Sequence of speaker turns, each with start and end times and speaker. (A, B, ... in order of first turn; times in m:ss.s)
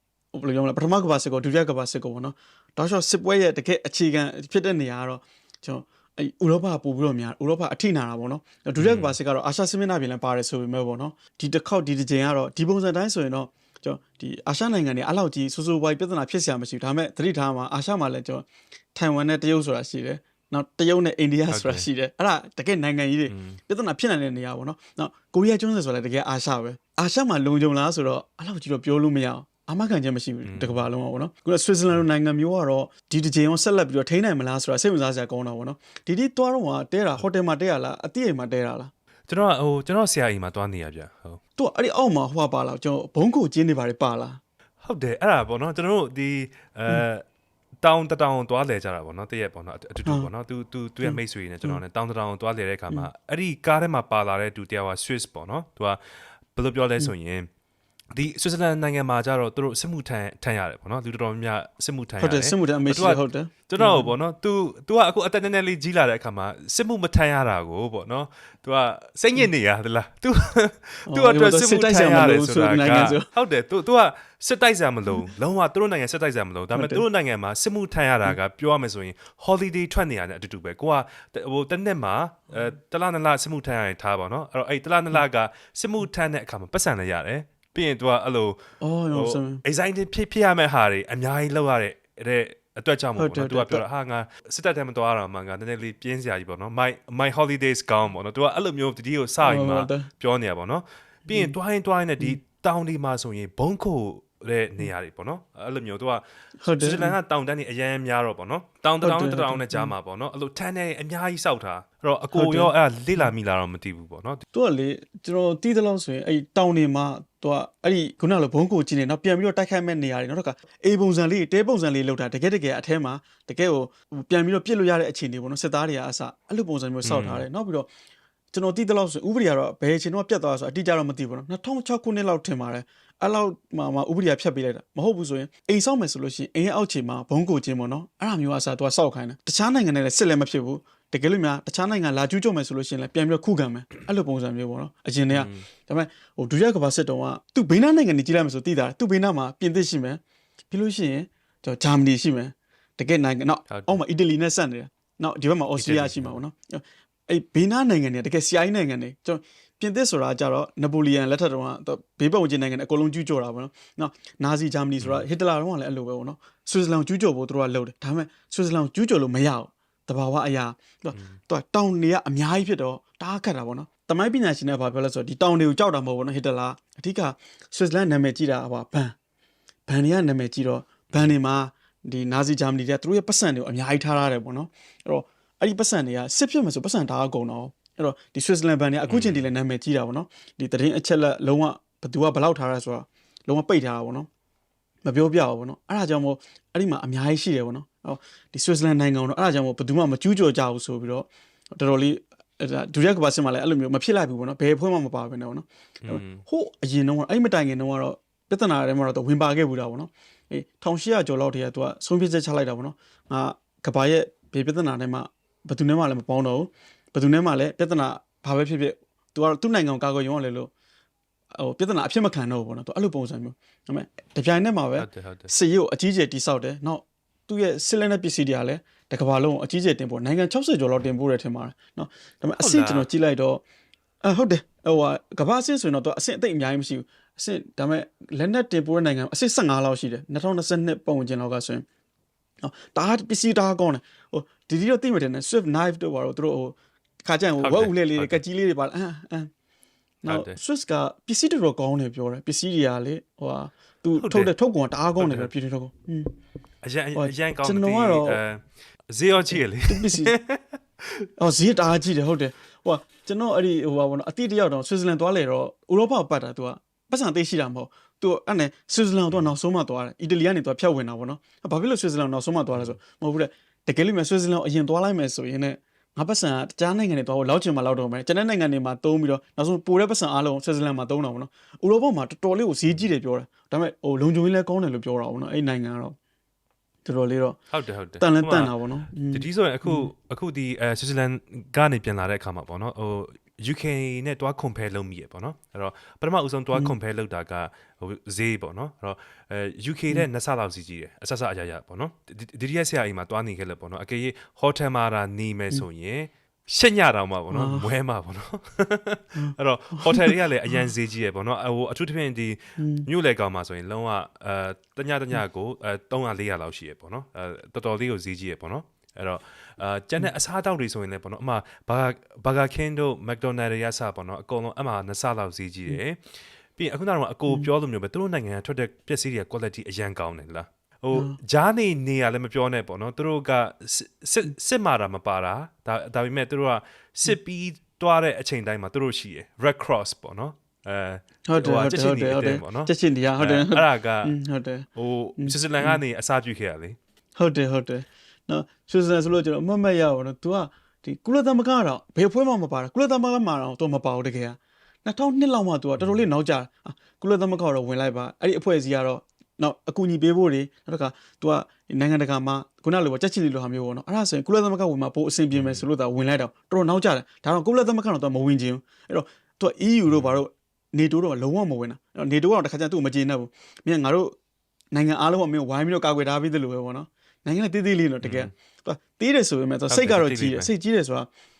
0:00.3-0:38.9 A
0:08.8-0:09.2 B
0:21.5-0:21.9 B
0:23.3-0:23.6 B
0:30.4-0:30.9 B
0:39.3-0:41.4 B
0:41.6-0:44.4 A
0:44.8-0:47.2 B
0:47.8-0:56.0 B
0:50.0-0:50.3 A
0:51.0-0:51.8 A
0:56.5-0:57.5 B
0:58.1-1:28.6 B
1:02.2-1:04.1 A
1:11.1-1:13.3 A
1:16.7-1:17.0 A
1:28.8-1:29.6 A
1:29.1-1:54.4 B
1:33.2-1:33.8 A
1:39.4-1:40.1 A
1:41.3-1:41.6 A
1:46.6-1:47.2 A
1:49.0-1:49.9 A
1:52.3-1:53.3 A
1:54.5-2:07.9 A
2:07.0-2:07.5 B
2:08.5-2:59.1 A
2:25.3-2:25.7 B
2:33.7-2:34.0 B
2:35.8-2:36.4 B
2:45.0-2:45.3 B
2:51.1-2:51.4 B
2:59.9-3:14.3 A
3:01.1-3:01.4 B
3:09.1-3:09.5 B
3:15.0-3:40.7 A
3:26.0-3:26.4 B
3:41.6-3:53.6 A
3:45.0-3:45.5 B
3:52.6-3:53.1 B
3:54.2-4:01.8 A
4:02.6-4:09.5 A
4:07.6-4:08.4 B
4:10.2-4:16.3 A
4:10.3-4:10.6 B
4:14.2-4:14.5 B
4:15.2-4:15.5 B
4:16.8-4:21.2 B
4:17.2-4:18.4 A
4:19.5-4:20.3 A
4:21.4-4:46.2 A
4:32.7-4:33.0 B
4:47.0-4:47.6 A
4:47.7-4:48.8 B
4:48.2-4:50.1 A
4:49.3-5:26.2 B
5:07.5-5:07.9 A
5:09.4-5:10.9 A
5:12.8-5:13.1 A
5:26.8-5:44.3 B
5:31.1-5:31.4 A
5:41.5-5:46.0 A
5:45.0-5:47.0 B
5:47.4-6:14.3 A
6:05.5-6:05.8 B
6:10.1-6:10.4 B
6:14.9-6:21.3 A
6:18.2-6:18.5 B
6:19.9-6:20.7 B